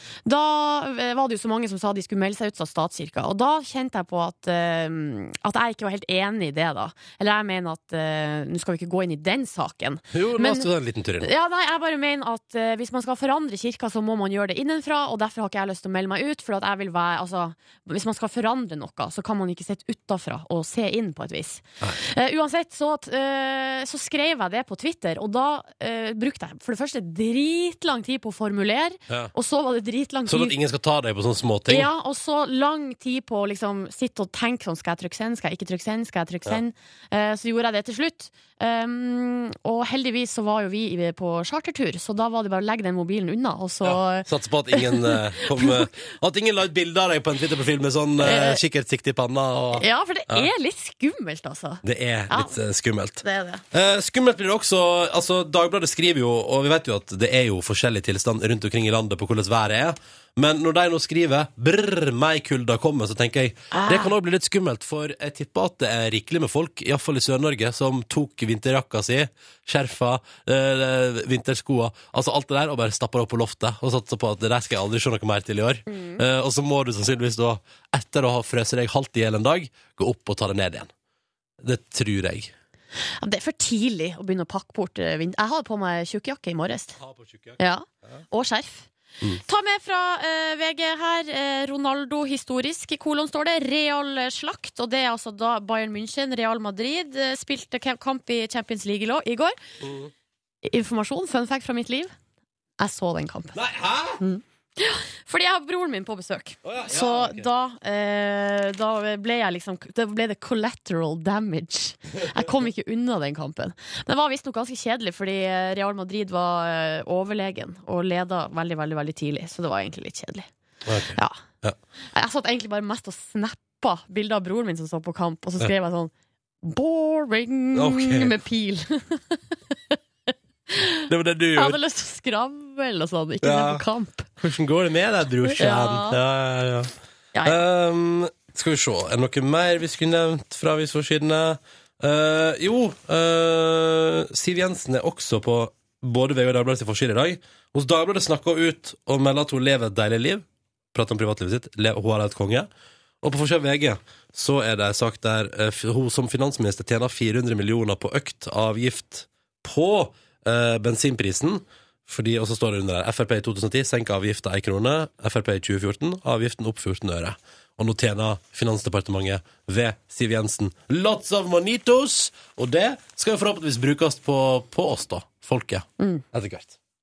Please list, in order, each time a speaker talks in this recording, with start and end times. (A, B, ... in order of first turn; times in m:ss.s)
0:00.2-0:10.7 A
0:10.1-0:11.3 B
0:11.2-0:30.6 A
0:30.3-0:31.9 B
0:31.7-0:45.9 A
0:43.8-0:50.5 B
0:48.2-0:48.6 A
0:49.8-0:52.6 A
0:51.8-1:20.9 B
0:53.2-0:53.6 A
1:03.7-1:04.1 A
1:15.9-1:16.2 A
1:21.6-1:22.5 B
1:23.2-1:27.0 A
1:27.0-1:27.6 B
1:27.6-1:28.9 A
1:29.4-1:39.6 A
1:39.8-1:40.1 B
1:40.6-1:42.1 A
1:42.8-1:43.6 A
1:43.5-1:44.2 B
1:44.2-2:00.5 A
1:46.6-1:47.5 B
2:00.8-2:01.8 B
2:02.1-2:06.1 A
2:06.6-2:10.0 A
2:07.7-2:08.3 B
2:10.7-2:11.0 A
2:11.1-2:11.8 B
2:11.5-2:14.3 A
2:13.4-2:13.8 B
2:14.4-2:16.9 B
2:15.4-2:16.2 A
2:17.3-2:17.6 A
2:17.4-2:32.7 B
2:33.2-2:56.8 B
2:56.0-2:56.2 A